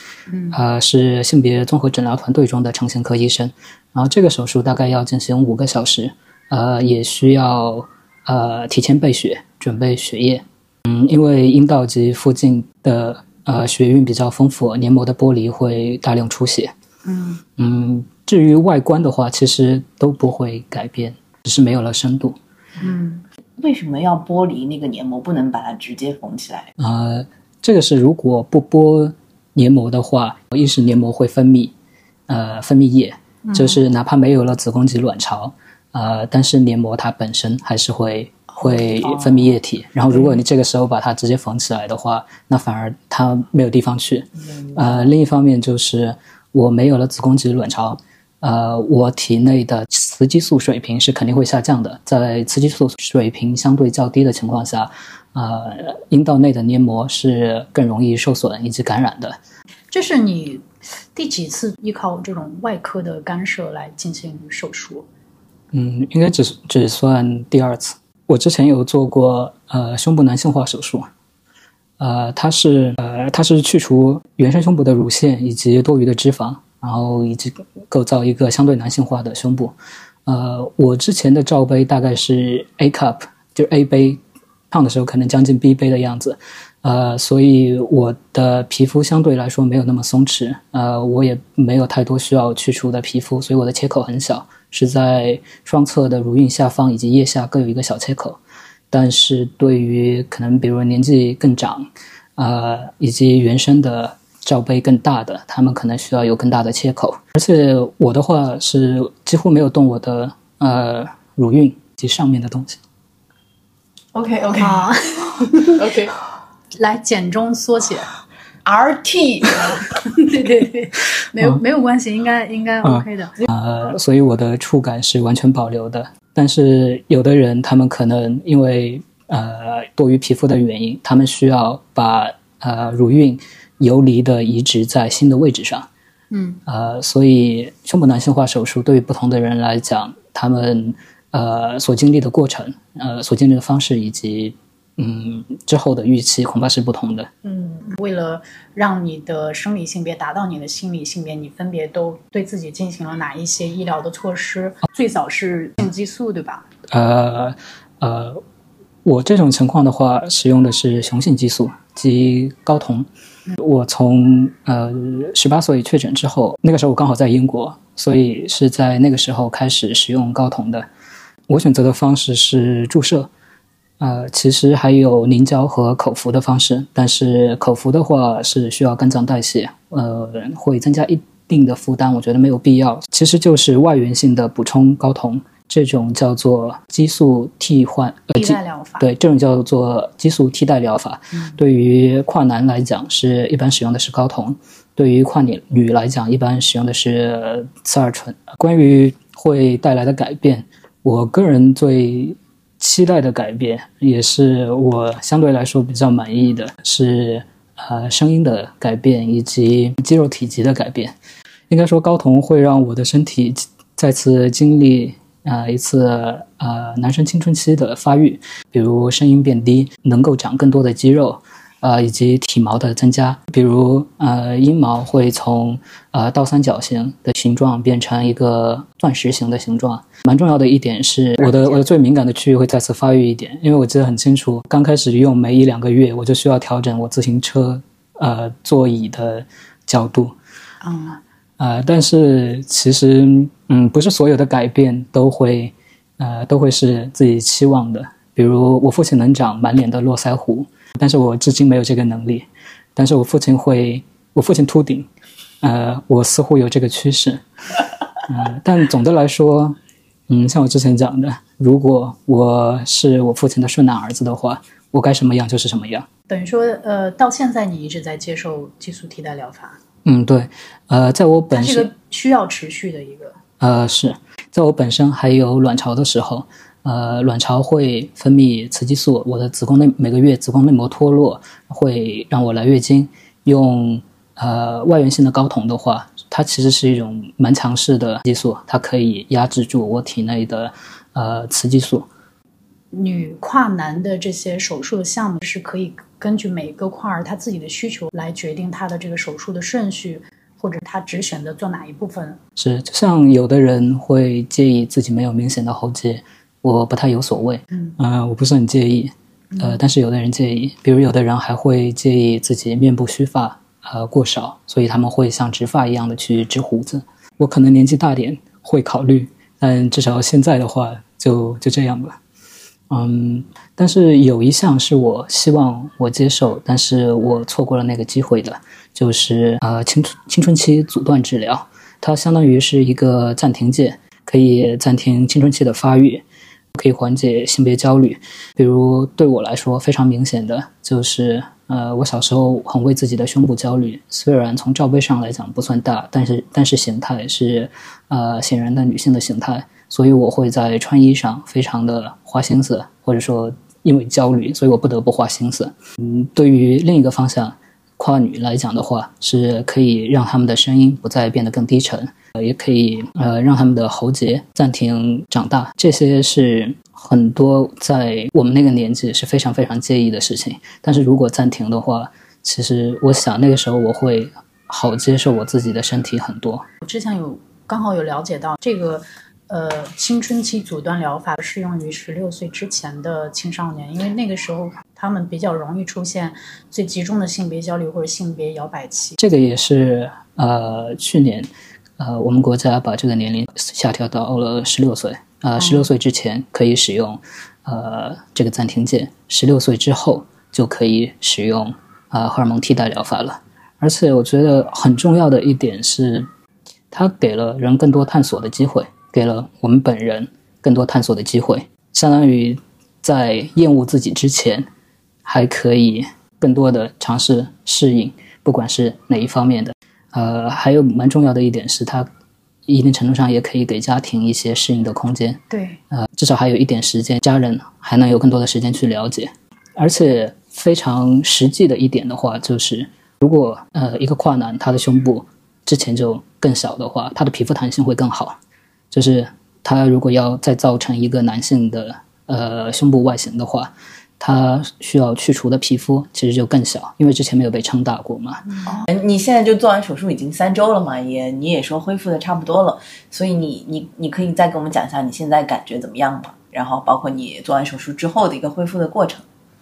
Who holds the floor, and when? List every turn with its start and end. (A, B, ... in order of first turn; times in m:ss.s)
0:00.3-0:00.6 A
0:00.5-0:16.7 B
0:17.0-0:17.4 A
0:17.6-0:22.4 B
0:22.8-0:23.2 A
0:23.6-0:26.7 C
0:26.8-0:31.7 B
0:32.3-0:59.4 B
0:33.4-0:33.8 A
0:38.5-0:39.2 A
0:59.9-1:05.0 A
1:05.7-1:11.1 B
1:12.0-1:19.8 B
1:20.2-1:38.4 B
1:38.9-1:52.8 B
1:54.1-1:56.2 C
1:54.6-1:55.8 A
1:56.7-1:58.1 A
1:58.6-1:59.8 C
1:59.6-2:03.3 A
2:02.8-2:15.9 B
2:16.3-2:16.6 A
2:16.6-2:27.3 B
2:27.8-2:36.6 A
2:36.9-2:38.4 B
2:39.0-2:50.9 B
2:51.5-2:53.3 B
2:54.0-3:31.2 B
3:08.4-3:09.0 A
3:31.7-4:00.4 B
4:00.8-4:01.2 A
4:01.6-4:15.1 B
4:15.6-4:17.4 B
4:18.2-4:19.8 B
4:20.3-4:26.1 B
4:26.3-4:29.8 A
4:30.0-4:31.9 B
4:31.5-4:33.4 A
4:33.6-4:52.1 B
4:52.9-5:02.4 A
5:02.6-5:22.2 B
5:22.9-6:16.6 B
6:16.8-6:29.2 A
6:29.2-6:46.3 B
6:46.9-6:54.7 B
6:55.2-7:02.1 B
7:02.7-7:18.4 B
7:05.5-7:05.8 A
7:18.9-7:28.6 B
7:28.8-7:39.2 C